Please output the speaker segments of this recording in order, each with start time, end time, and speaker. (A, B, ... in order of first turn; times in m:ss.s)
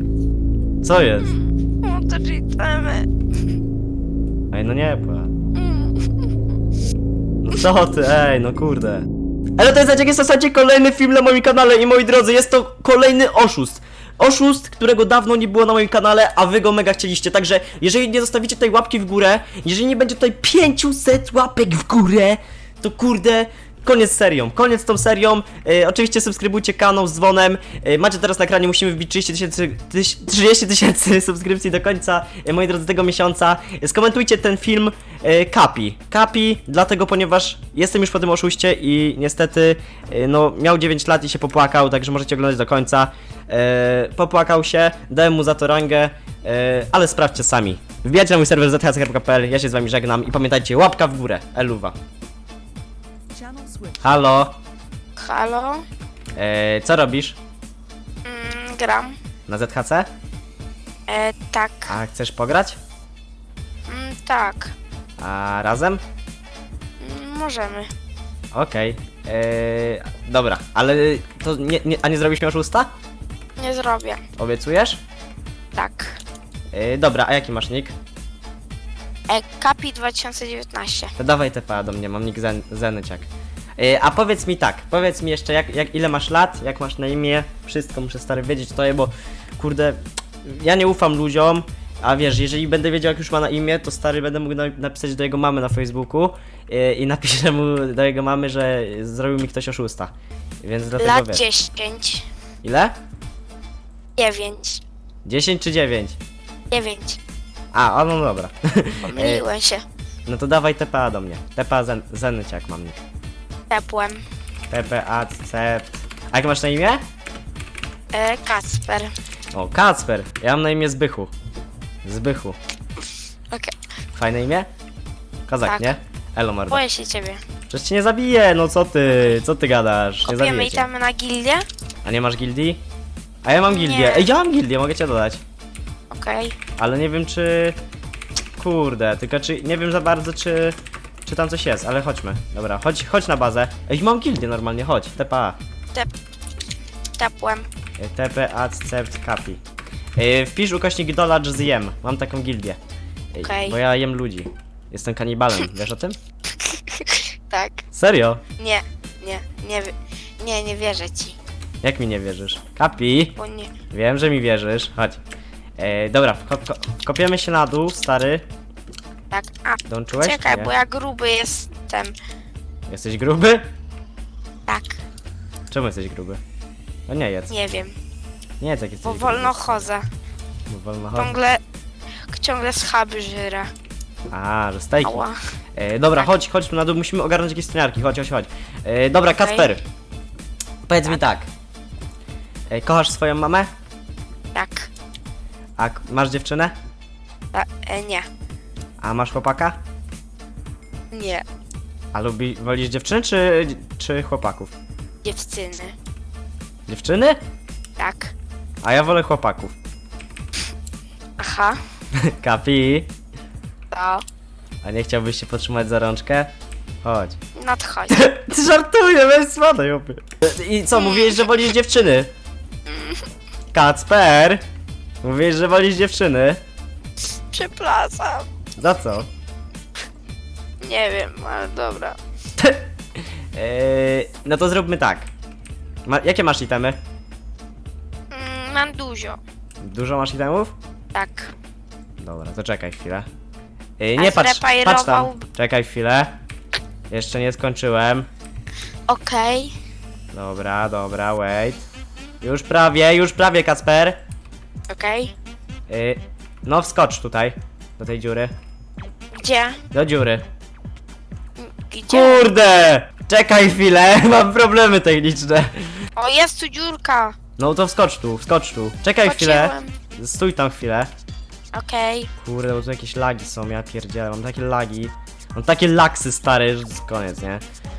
0:00.8-0:01.3 A
0:01.8-0:03.1 B
0:04.5-0:05.3 A
0:05.5-0:06.3 B
0:07.4-0:09.0 A
0:09.6-0:51.9 A
0:54.0-0:54.5 A
0:55.2-0:55.8 B
0:56.4-0:57.4 A
0:58.2-0:59.2 B
0:59.5-1:00.1 A
1:01.1-1:01.9 B
1:01.9-1:02.8 A
1:03.9-1:04.7 B
1:05.2-1:06.0 A
1:07.0-1:07.9 B
1:08.5-1:12.9 A
1:13.6-1:14.2 B
1:14.4-1:15.0 A
1:15.7-1:16.2 B
1:16.7-1:17.9 A
1:19.3-1:21.1 B
1:21.2-1:23.3 A
1:23.8-1:40.1 A
1:40.6-1:41.4 A
1:41.0-1:42.3 B
1:42.6-1:42.9 A
1:44.2-1:44.8 B
1:45.2-1:46.2 A
1:46.7-1:47.2 B
1:47.7-1:49.4 A
1:49.0-1:49.8 B
1:50.2-1:53.0 A
1:53.7-1:54.2 B
1:54.7-1:57.0 A
1:58.1-1:59.1 B
1:59.5-2:01.3 A
2:02.0-2:02.6 A
2:03.5-2:03.7 B
2:04.1-2:04.7 A
2:05.5-2:06.8 A
2:05.6-2:05.9 B
2:06.7-2:07.4 B
2:07.7-2:10.9 A
2:10.2-2:11.6 B
2:12.0-2:12.8 A
2:13.4-2:15.4 A
2:13.6-2:14.3 B
2:16.1-2:16.6 B
2:16.8-2:17.8 A
2:18.6-2:25.6 A
2:27.2-2:27.7 B
2:28.0-2:29.6 A
2:30.2-2:32.8 A
2:33.3-2:36.2 A
2:33.4-2:33.8 B
2:36.6-2:37.8 B
2:37.9-2:38.4 A
2:38.6-2:41.4 B
2:41.8-2:43.4 A
2:43.4-2:43.7 B
2:43.9-2:45.2 A
2:45.8-2:48.4 A
2:49.3-2:52.2 B
2:49.9-2:50.7 A
2:52.9-2:53.6 A
2:54.7-2:55.0 B
2:55.7-2:56.4 A
2:57.1-2:57.5 A
2:57.5-2:58.0 B
2:58.6-2:59.9 A
2:59.0-3:00.0 B
3:00.7-3:01.4 A
3:01.1-3:01.6 B
3:02.3-3:03.7 B
3:04.3-3:05.2 A
3:05.0-3:05.4 B
3:05.8-3:09.8 A
3:09.4-3:09.7 B
3:10.9-3:11.5 A
3:12.7-3:13.7 A
3:14.5-3:14.9 B
3:15.8-3:16.7 A
3:17.5-3:18.3 B
3:19.0-3:19.8 A
3:21.1-3:21.4 B
3:22.1-3:24.7 A
3:25.2-3:26.0 B
3:26.9-3:27.4 A
3:28.0-3:28.3 B
3:28.8-3:29.7 A
3:31.4-3:31.8 B
3:32.1-3:33.1 A
3:33.9-3:34.2 B
3:34.8-3:36.5 A
3:37.0-3:37.4 A
3:37.5-3:38.2 B
3:38.1-3:42.3 A
3:40.9-3:41.4 B
3:42.9-3:43.2 B
3:43.7-3:44.6 A
3:45.2-3:46.6 A
3:47.5-3:48.5 B
3:48.8-3:49.3 A
3:50.8-3:52.2 B
3:52.6-3:52.8 A
3:53.5-3:55.3 A
3:56.0-3:57.0 A
3:58.3-3:59.4 B
3:59.8-4:00.7 A
4:01.1-4:01.5 B
4:02.2-4:03.3 A
4:04.0-4:06.4 A
4:04.2-4:05.4 B
4:07.1-4:08.3 A
4:09.1-4:09.7 B
4:10.3-4:11.8 A
4:12.4-4:14.2 A
4:14.9-4:15.3 B
4:15.9-4:18.5 A
4:19.3-4:19.8 B
4:19.9-4:20.4 A
4:21.6-4:22.5 B
4:22.1-4:26.0 A
4:26.2-4:27.4 B
4:27.6-4:31.1 A
4:29.2-4:30.0 B
4:31.7-4:32.3 B
4:32.4-4:37.6 A